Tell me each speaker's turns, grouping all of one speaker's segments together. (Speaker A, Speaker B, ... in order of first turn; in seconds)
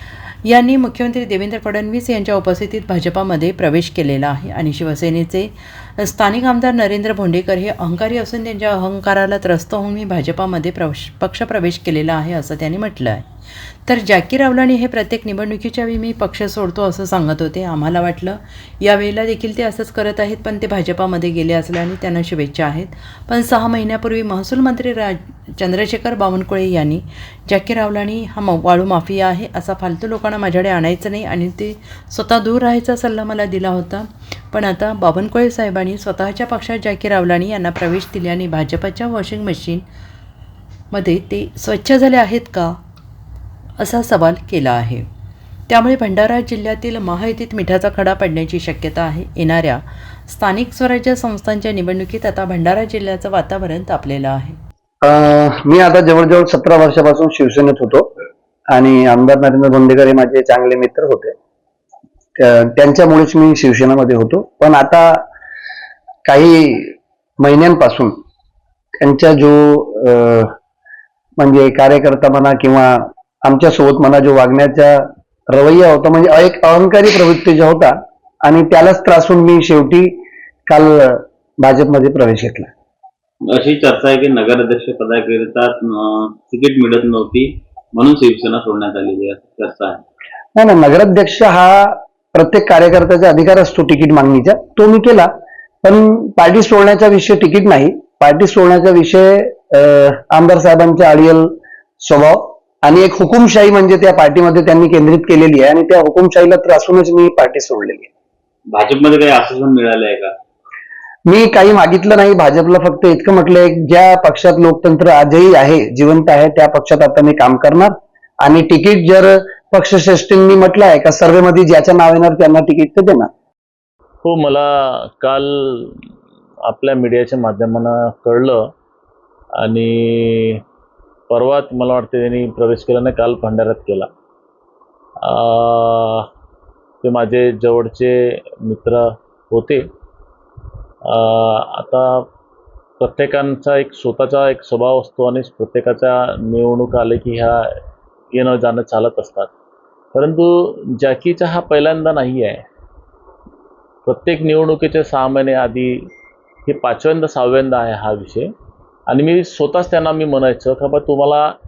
Speaker A: 0.4-13.2, 13.9-39.8, 40.9-42.8, 43.8-45.1, 45.7-54.6
Speaker B: 55.0-58.1, 58.7-61.3, 62.4-65.2, 66.2-68.1, 69.0-70.5, 71.4-80.2, 80.7-82.7, 90.6-95.3, 95.8-108.1, 111.3-123.3
Speaker C: 83.5-90.0, 108.7-110.3
Speaker D: 124.2-126.0, 126.7-128.6, 129.6-130.6, 131.3-134.1, 135.2-136.3, 137.0-139.8, 141.1-142.3, 143.0-147.7, 148.3-149.5, 150.1-152.7, 154.1-156.1, 156.7-158.5, 159.1-161.5